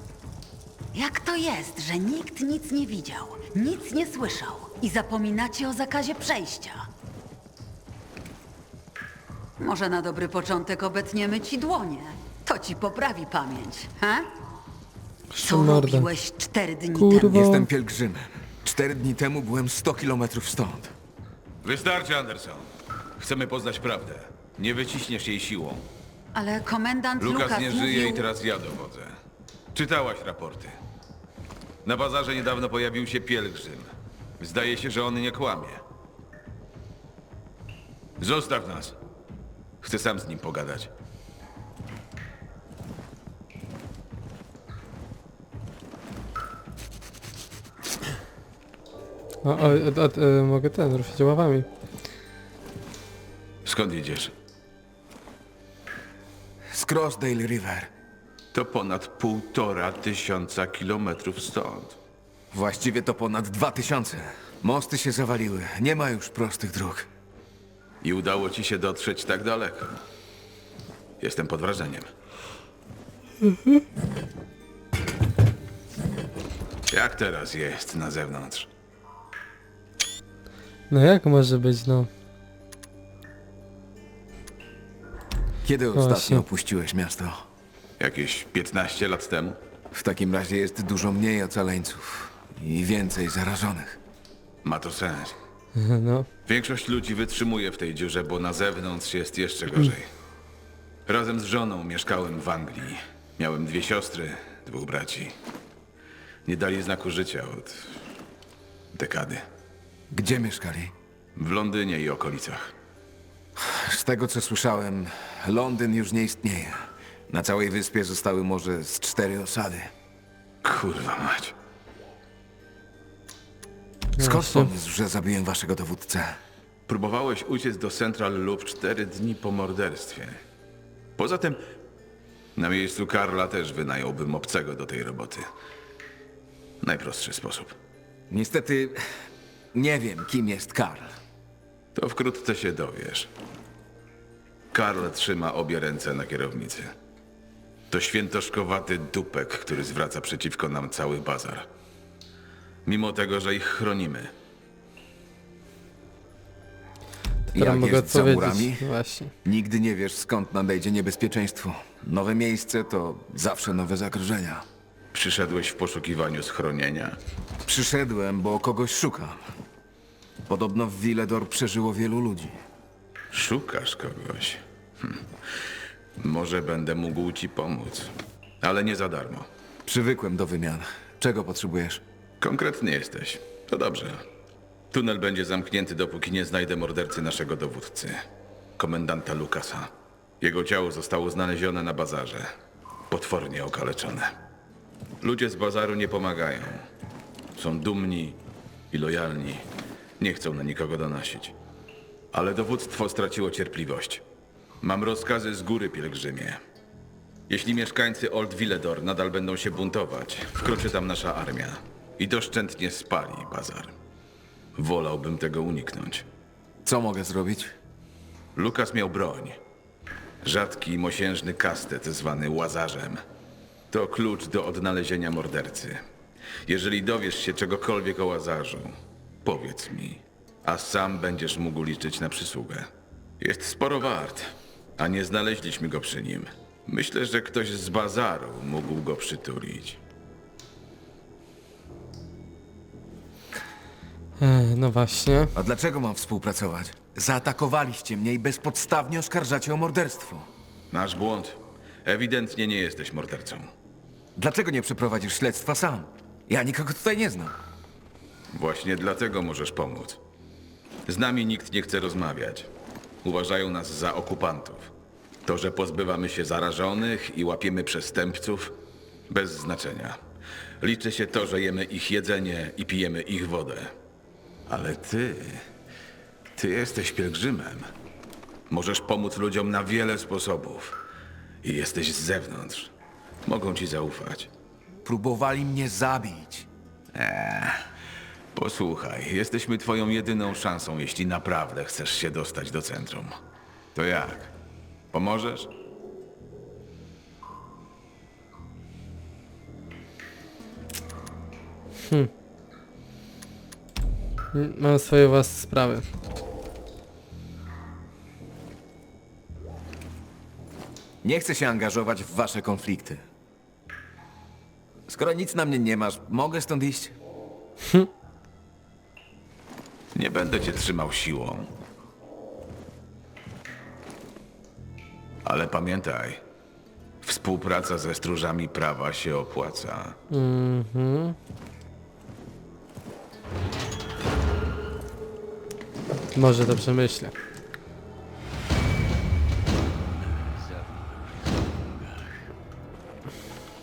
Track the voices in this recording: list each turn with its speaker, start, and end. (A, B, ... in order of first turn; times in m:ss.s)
0:00.9-0:06.9 A
0:09.6-0:14.3 A
0:15.3-0:16.1 B
0:15.4-0:17.4 A
0:17.0-0:17.7 B
0:17.2-0:20.9 C
0:21.6-0:25.8 D
0:26.3-0:28.2 A
0:27.2-0:29.2 D
0:29.7-0:30.8 D
0:31.8-0:35.8 D
0:38.2-0:39.0 D
0:39.8-0:40.9 D
0:49.4-0:51.7 B
0:53.6-0:54.3 D
0:56.7-0:57.9 C
0:58.5-1:02.0 D
1:02.5-1:07.1 C
1:08.0-1:10.0 D
1:11.2-1:12.1 D
1:16.9-1:18.7 D
1:20.9-1:22.1 B
1:25.6-1:27.4 C
1:26.0-1:26.5 B
1:28.0-1:29.6 D
1:29.9-1:34.0 C
1:34.6-1:35.4 D
1:35.8-1:36.3 B
1:36.5-1:40.1 D
1:41.1-1:45.4 D
1:46.4-1:48.0 D
1:48.9-1:49.4 D
1:50.1-1:50.9 C
1:51.4-1:52.7 D
1:53.6-1:59.9 C
2:00.6-2:01.5 D
2:04.2-2:04.7 B
2:04.2-2:06.4 C
2:06.9-2:10.4 D
2:11.2-2:11.6 D
2:12.6-2:15.5 D
2:16.8-2:17.8 D
2:18.3-2:19.1 C
2:19.7-2:21.2 C
2:22.0-2:23.3 D
2:24.7-2:26.9 D
2:27.9-2:31.7 D
2:32.9-2:34.3 D
2:37.5-2:39.3 B
2:37.6-2:38.9 C
2:39.4-2:44.7 C
2:45.1-2:47.2 D
2:47.6-2:49.4 C
2:50.5-2:52.6 C
2:53.3-2:55.3 D
2:56.2-2:59.5 D
2:59.9-3:02.0 C
3:02.4-3:04.2 D
3:04.9-3:08.2 D
3:08.8-3:12.5 D
3:13.1-3:14.3 D
3:15.2-3:16.8 D
3:17.6-3:18.4 D
3:18.9-3:19.6 D
3:20.2-3:21.6 D
3:22.3-3:24.2 D
3:24.8-3:26.6 D
3:27.5-3:34.0 D
3:34.8-3:36.2 D
3:36.8-3:37.7 C
3:38.6-3:39.6 D
3:40.4-3:43.2 D
3:43.9-3:46.0 D
3:46.7-3:52.9 D
3:53.4-4:00.0 D
4:04.4-4:05.5 B
4:05.6-4:10.5 C
4:10.9-4:13.7 D
4:14.4-4:17.6 C
4:18.5-4:20.2 D
4:21.1-4:22.7 D
4:23.2-4:24.9 D
4:25.5-4:28.8 D
4:29.3-4:30.2 D
4:30.8-4:33.9 D
4:34.7-4:35.7 D
4:36.6-4:37.9 D
4:38.7-4:41.0 D
4:41.6-4:42.9 D
4:43.5-4:44.5 D
4:45.0-4:46.7 C
4:47.1-4:47.8 D
4:48.5-4:53.4 D
4:53.9-4:54.5 D
4:55.1-4:55.7 D
5:02.0-5:02.3 B
5:04.5-5:06.1 B
5:11.2-5:13.2 C
5:15.1-5:17.2 C
5:20.1-5:21.7 D
5:25.4-5:26.4 D
5:27.2-5:30.2 D
5:30.3-5:31.4 B
5:36.3-5:37.3 B